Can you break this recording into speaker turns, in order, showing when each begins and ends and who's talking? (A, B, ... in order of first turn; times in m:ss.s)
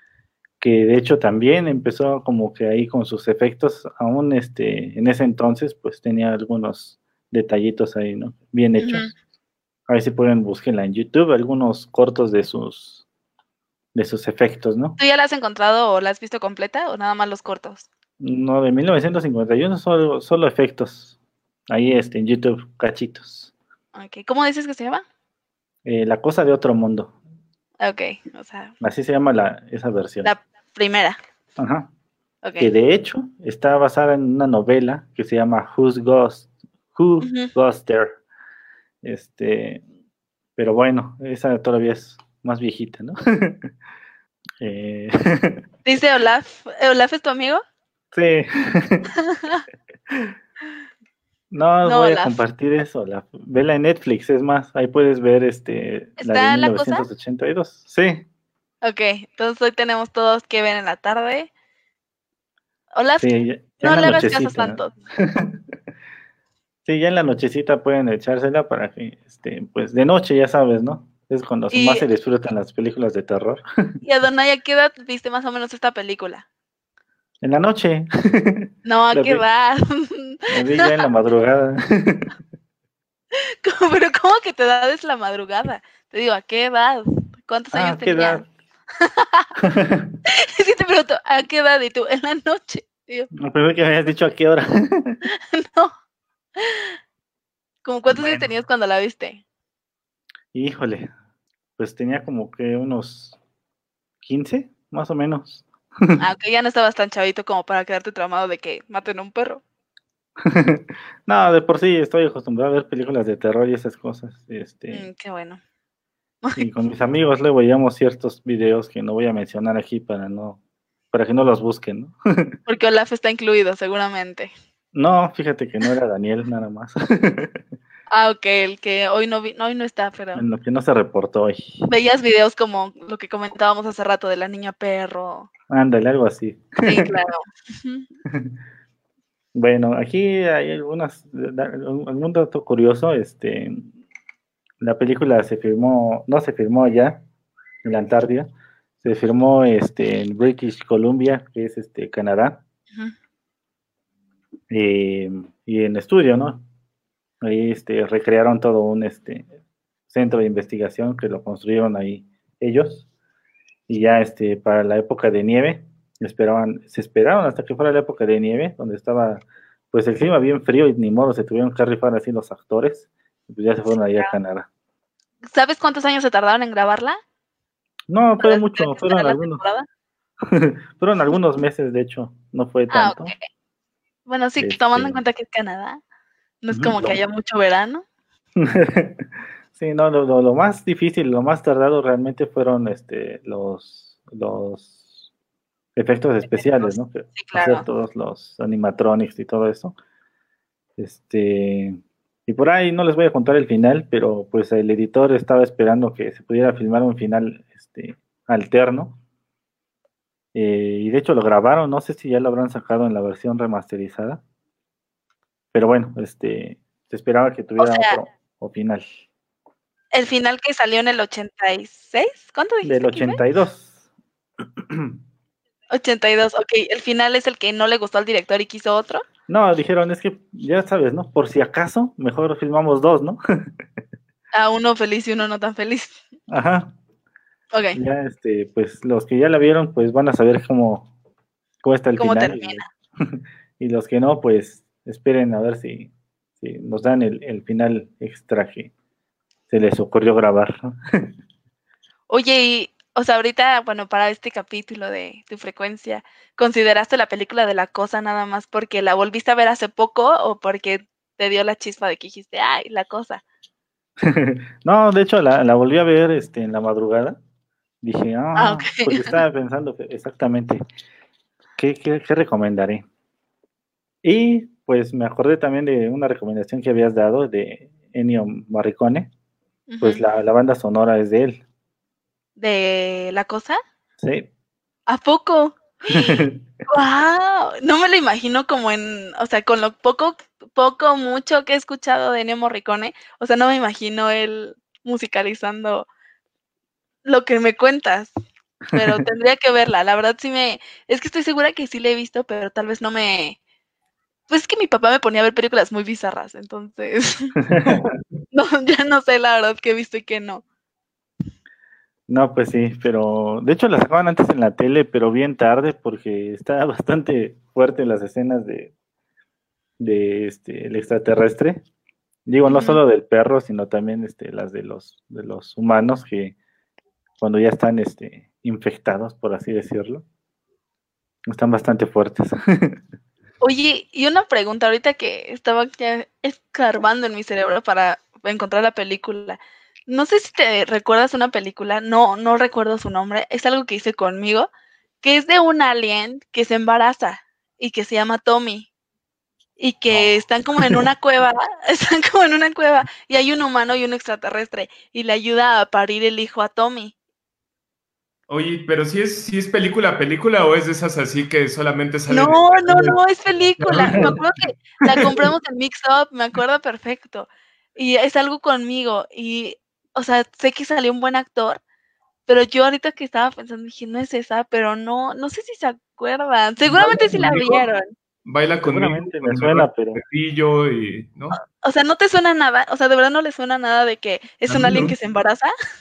0:00.6-0:09.1 A
0:08.8-0:09.1 B
0:09.9-0:13.0 A
0:14.0-0:15.0 A
0:15.0-0:17.9 B
0:18.2-0:21.1 A
0:21.7-0:23.5 A
0:24.0-0:25.0 B
0:25.8-0:27.1 A
0:27.8-0:28.7 B
0:28.8-0:30.3 A
0:30.2-0:31.2 B
0:31.6-0:31.9 A
0:32.4-0:32.7 B
0:32.6-0:38.2 A
0:37.2-0:37.5 B
0:39.0-0:39.8 A
0:40.6-0:43.7 A
0:44.6-0:45.6 A
0:45.8-0:47.6 B
0:48.1-0:49.1 A
0:49.3-0:49.6 B
0:51.5-0:58.3 A
0:51.8-0:52.4 B
0:56.2-0:57.1 B
0:58.8-1:01.5 B
1:02.9-1:03.3 B
1:03.2-1:05.6 A
1:03.8-1:04.9 B
1:06.9-1:14.0 A
1:11.7-1:12.0 B
1:14.0-1:16.4 B
1:17.4-1:19.4 A
1:18.8-1:21.0 B
1:20.5-1:22.3 A
1:23.4-1:28.4 B
1:27.7-1:28.5 A
1:29.0-1:29.5 B
1:29.6-1:30.1 A
1:30.3-1:33.3 B
1:33.4-1:35.2 A
1:35.3-1:35.9 B
1:36.6-1:37.0 B
1:37.8-1:39.4 B
1:38.1-1:38.5 A
1:40.5-1:41.1 A
1:41.8-1:43.4 A
1:44.2-1:46.2 A
1:46.2-1:49.6 B
1:50.4-1:55.1 A
1:54.9-1:55.6 B
1:56.6-2:00.6 A
2:01.1-2:02.6 A
2:02.7-2:04.5 B
2:04.9-2:07.6 A
2:08.1-2:10.4 B
2:10.4-2:11.9 A
2:11.9-2:15.5 B
2:15.7-2:17.1 A
2:16.8-2:18.1 B
2:19.5-2:23.9 A
2:24.8-2:27.2 A
2:27.8-2:28.5 A
2:29.0-2:32.6 A
2:34.7-2:36.6 A
2:37.4-2:39.5 A
2:40.1-2:43.1 A
2:43.9-2:54.7 A
2:54.1-2:54.4 B
2:55.4-2:57.2 B
2:58.1-2:59.6 A
2:58.4-2:59.9 B
3:00.4-3:03.3 A
3:02.9-3:03.5 B
3:04.3-3:06.0 B
3:04.6-3:05.2 A
3:06.6-3:08.0 B
3:06.7-3:07.2 A
3:08.6-3:15.2 A
3:16.0-3:20.0 A
3:16.5-3:17.9 B
3:21.0-3:29.2 A
3:30.5-3:34.4 A
3:35.7-3:39.1 A
3:37.8-3:38.2 B
3:40.1-3:43.4 B
3:42.8-3:43.9 A
3:44.8-3:45.2 A
3:45.9-3:49.2 B
3:49.5-3:53.8 A
3:54.5-3:56.2 B
3:56.5-3:57.0 A
3:57.7-3:58.0 B
3:57.9-4:01.1 A
4:01.8-4:08.9 A
4:02.2-4:02.9 B
4:09.7-4:11.3 A
4:12.3-4:23.4 B
4:24.2-4:27.4 A
4:28.0-4:30.8 A
4:28.6-4:29.4 B
4:31.8-4:33.1 A
4:34.2-4:39.3 A
4:39.9-4:40.2 B
4:40.0-4:41.6 A
4:42.6-4:43.8 B
4:44.2-4:44.5 A
4:45.1-4:56.1 B
4:46.1-4:46.6 A
4:57.2-4:58.3 B
4:58.9-4:59.2 A
4:58.9-5:03.6 B
5:04.5-5:07.5 B
5:07.6-5:08.0 A
5:08.5-5:10.6 B
5:12.3-5:18.9 A
5:20.0-5:21.8 A
5:22.5-5:26.6 A
5:22.7-5:23.0 B
5:27.4-5:30.2 A
5:31.5-5:33.0 A
5:33.6-5:44.7 B
5:45.2-5:48.9 B
5:49.8-5:57.1 B
5:58.5-6:03.2 C
6:02.3-6:11.8 B
6:03.8-6:04.4 C
6:05.0-6:05.5 C
6:12.5-6:18.1 B
6:16.9-6:17.9 C
6:18.4-6:21.6 C
6:18.8-6:20.2 A
6:21.8-6:25.7 B
6:24.7-6:25.2 C